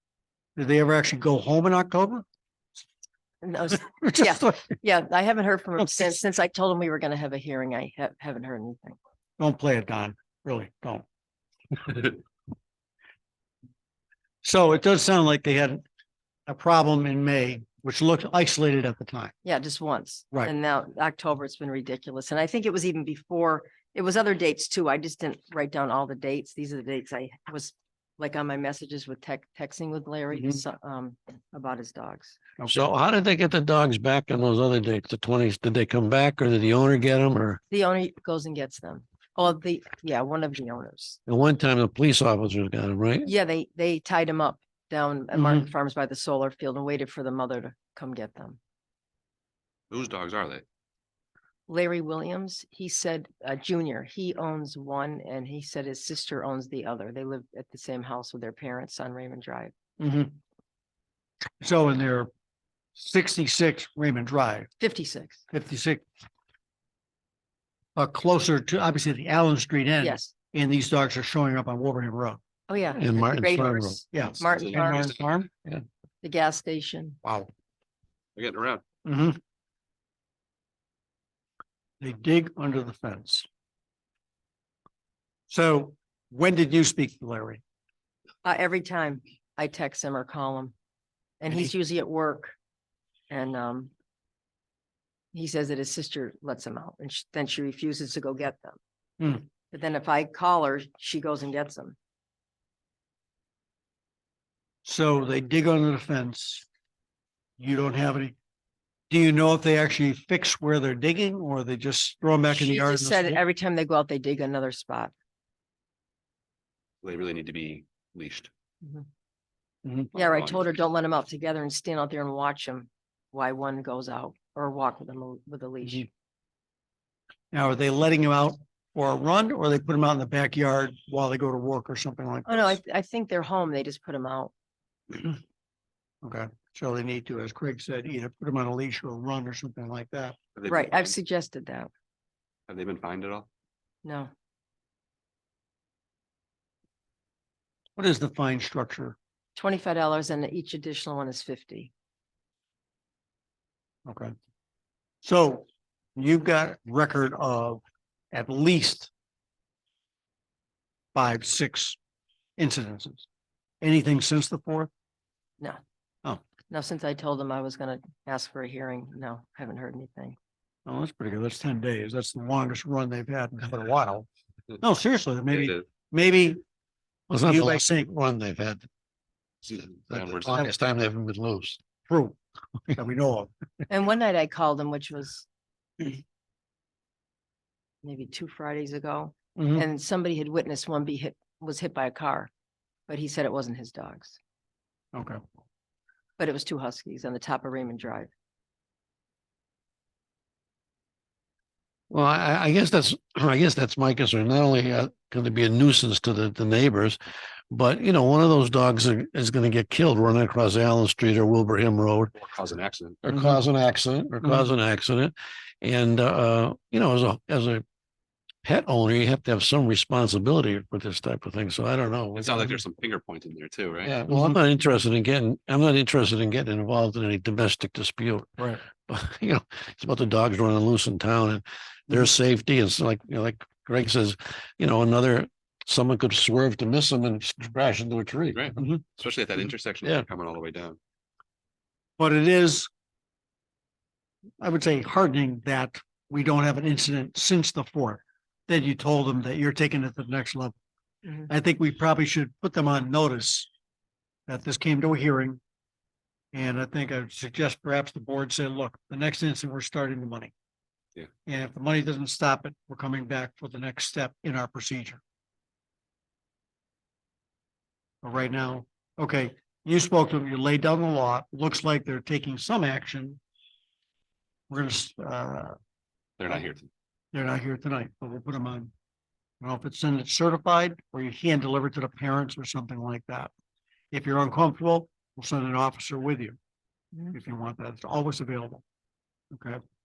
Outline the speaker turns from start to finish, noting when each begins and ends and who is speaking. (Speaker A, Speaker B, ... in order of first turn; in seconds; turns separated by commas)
Speaker A: 0.6-2.2, Speaker B: 3.4-9.0, Speaker A: 4.0-4.7, Speaker A: 9.4-11.0, Speaker A: 11.8-12.1, Speaker A: 14.4-15.8, Speaker A: 16.5-19.3, Speaker B: 19.4-32.4, Speaker A: 30.3-30.6, Speaker C: 32.7-37.6, Speaker B: 37.7-41.2, Speaker C: 41.2-43.3, Speaker B: 43.2-48.6, Speaker A: 45.3-45.7, Speaker D: 49.9-50.6, Speaker B: 51.7-59.7, Speaker A: 60.0-60.4, Speaker A: 61.6-62.3, Speaker A: 63.0-64.7, Speaker B: 64.8-65.4, Speaker A: 65.5-66.0, Speaker A: 68.0-72.4, Speaker B: 70.0-70.3, Speaker B: 72.7-75.1, Speaker C: 73.0-74.0, Speaker A: 74.1-75.5, Speaker D: 74.4-75.2, Speaker B: 76.2-77.2, Speaker D: 78.3-78.8, Speaker A: 79.0-79.4, Speaker A: 82.0-83.5, Speaker A: 85.5-87.6, Speaker B: 88.4-90.7, Speaker B: 91.4-92.5, Speaker B: 93.3-93.9, Speaker B: 95.3-98.8, Speaker A: 99.2-99.4, Speaker B: 99.7-102.0, Speaker A: 104.8-106.7, Speaker A: 107.6-108.3, Speaker A: 109.1-113.4, Speaker B: 112.5-115.1, Speaker D: 117.0-118.5, Speaker A: 119.8-120.1, Speaker B: 120.1-126.1, Speaker D: 120.1-120.7, Speaker A: 127.5-132.8, Speaker B: 132.4-134.5, Speaker A: 136.2-140.3, Speaker D: 140.6-141.1, Speaker B: 140.7-141.9, Speaker D: 142.7-143.5, Speaker B: 144.0-144.3, Speaker A: 148.0-149.2, Speaker B: 149.6-151.9, Speaker A: 154.1-154.3, Speaker A: 155.2-155.6, Speaker A: 156.2-159.1, Speaker A: 161.1-162.0, Speaker A: 162.6-163.2, Speaker A: 163.8-164.9, Speaker B: 166.7-170.4, Speaker A: 170.8-174.3, Speaker A: 174.8-176.6, Speaker D: 175.5-175.8, Speaker C: 177.3-178.9, Speaker A: 177.3-178.1, Speaker D: 179.7-180.7, Speaker C: 180.1-181.8, Speaker A: 182.1-182.3, Speaker A: 182.9-183.5, Speaker B: 183.9-185.4, Speaker B: 188.0-192.5, Speaker A: 189.6-189.8, Speaker B: 193.1-194.4, Speaker A: 195.1-195.4, Speaker B: 196.4-198.3, Speaker C: 202.1-207.2, Speaker C: 207.7-212.3, Speaker D: 212.3-213.2, Speaker C: 213.2-217.8, Speaker A: 213.3-213.6, Speaker C: 218.6-222.7, Speaker D: 222.3-224.1, Speaker C: 224.0-238.8, Speaker A: 224.3-224.6, Speaker D: 238.5-241.0, Speaker A: 238.8-239.0, Speaker A: 242.2-242.9, Speaker A: 244.6-250.7, Speaker A: 251.5-253.7, Speaker A: 254.5-255.6, Speaker A: 256.5-260.5, Speaker A: 261.4-265.2, Speaker A: 268.2-273.4, Speaker A: 274.7-275.8, Speaker D: 276.4-276.9, Speaker A: 277.3-278.9, Speaker A: 279.6-283.5, Speaker A: 284.1-286.6, Speaker A: 287.3-288.8, Speaker A: 289.5-289.8